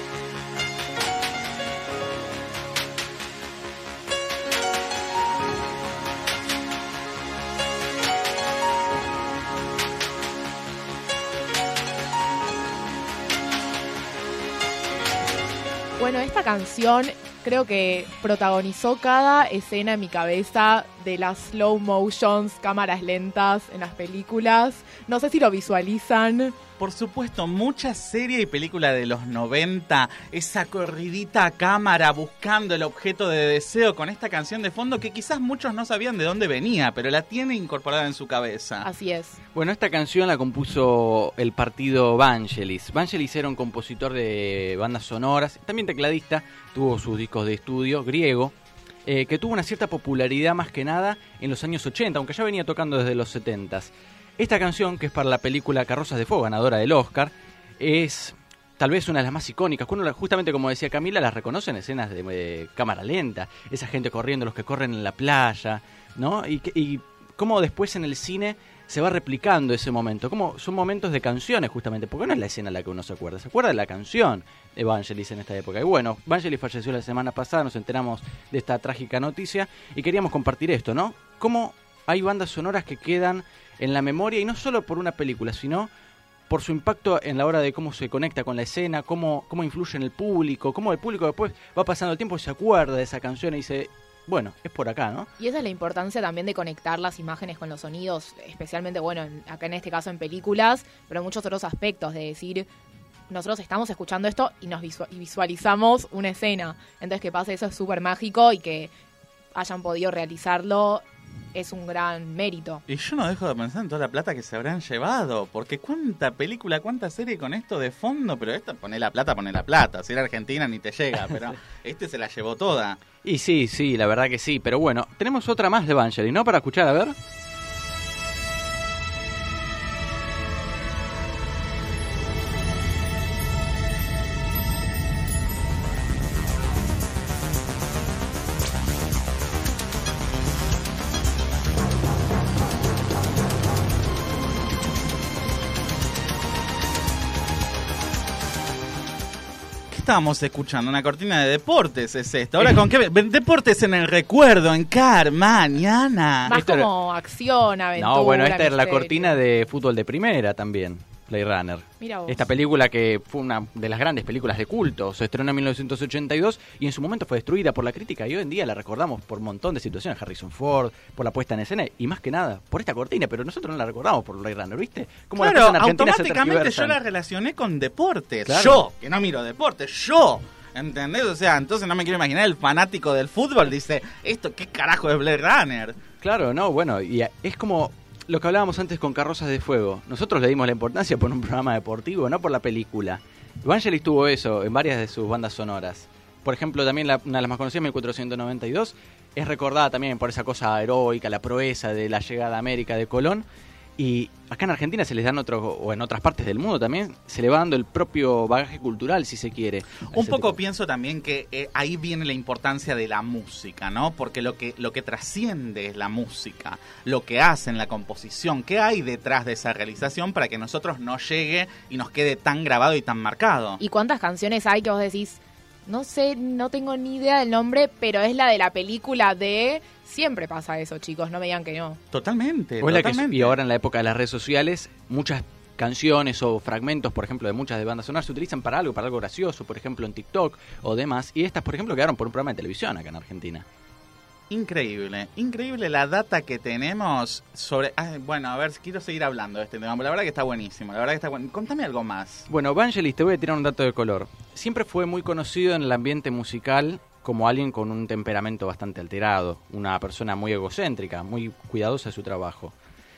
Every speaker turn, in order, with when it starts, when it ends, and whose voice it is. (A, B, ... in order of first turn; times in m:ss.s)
0:16.0-0:26.5 A
0:26.8-0:38.8 B
0:38.8-0:39.4 A
0:39.5-0:48.5 C
0:49.0-1:25.9 C
1:26.5-1:35.3 C
1:35.4-1:42.7 A
1:43.3-1:48.9 A
1:49.5-1:51.0 A
1:51.5-1:52.8 A
1:52.9-2:03.0 B
2:03.2-2:07.2 C
2:29.9-2:36.5 B
2:36.5-2:39.4 A
2:36.5-2:36.9 C
2:38.0-2:57.0 C
2:42.0-2:42.4 A
2:55.4-3:06.0 B
2:58.4-2:58.8 C
3:06.2-3:23.4 C
3:24.0-3:30.6 C
3:30.1-3:43.8 B
3:43.8-3:52.0 A
3:52.1-3:53.6 B
3:52.8-4:03.6 C
4:04.5-4:12.4 B
4:12.5-4:22.7 C